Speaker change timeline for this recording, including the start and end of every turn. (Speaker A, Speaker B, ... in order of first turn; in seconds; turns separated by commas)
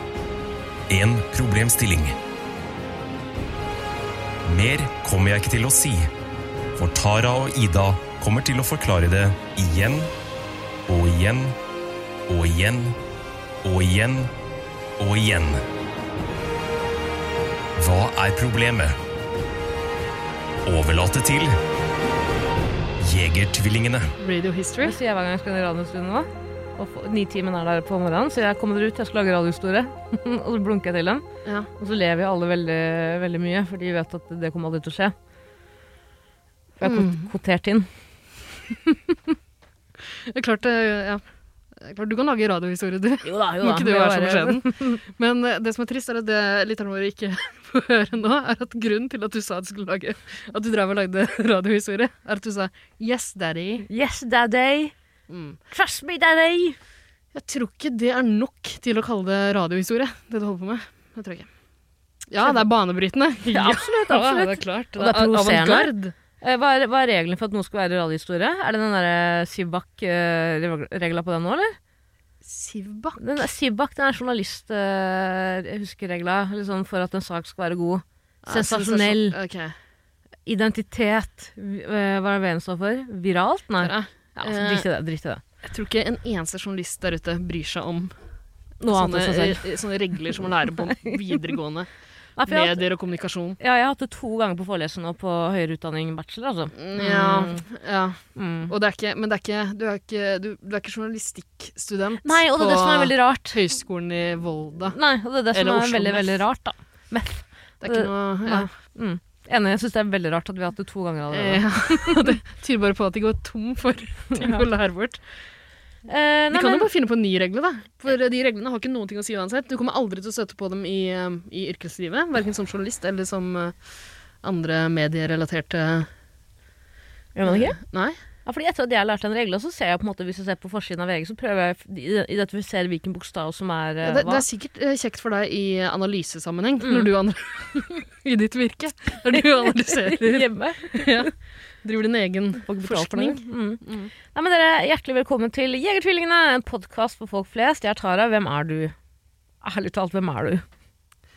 Speaker A: 0.9-2.2, Speaker A: 4.4-6.1, Speaker A: 6.8-10.1, Speaker A: 10.9-11.6, Speaker A: 12.3-13.0, Speaker A: 13.6-14.3, Speaker A: 15.0-15.6, Speaker A: 17.8-19.0, Speaker A: 20.6-21.5, Speaker A: 23.0-24.1, Speaker B: 24.2-25.0, Speaker C: 24.8-31.2, Speaker C: 31.8-35.1, Speaker C: 36.8-37.9, Speaker B: 36.8-37.3, Speaker B: 40.2-41.2, Speaker B: 41.8-53.9, Speaker C: 43.2-45.0, Speaker C: 53.9-54.9, Speaker B: 55.3-55.6, Speaker C: 55.7-56.8, Speaker B: 57.3-61.5, Speaker B: 62.3-66.1, Speaker C: 63.5-71.8, Speaker B: 72.4-73.4, Speaker C: 73.2-79.4, Speaker B: 78.4-79.8, Speaker C: 80.5-85.4, Speaker B: 83.8-84.9, Speaker B: 85.6-88.1, Speaker C: 88.8-89.7, Speaker B: 88.9-91.9, Speaker C: 92.4-92.8, Speaker B: 92.5-93.6, Speaker C: 93.6-97.6, Speaker B: 96.8-105.0, Speaker C: 98.4-98.7, Speaker C: 102.2-103.6, Speaker C: 104.9-112.3, Speaker B: 105.5-106.4, Speaker B: 107.8-108.7, Speaker B: 111.3-115.2, Speaker C: 116.1-116.9, Speaker B: 116.5-123.8, Speaker B: 124.4-126.1, Speaker C: 127.3-127.8, Speaker B: 127.5-128.2, Speaker C: 128.4-134.5, Speaker B: 134.0-141.3, Speaker C: 136.8-137.1, Speaker C: 139.3-141.3, Speaker B: 141.8-144.1, Speaker C: 142.6-148.9, Speaker C: 149.6-150.6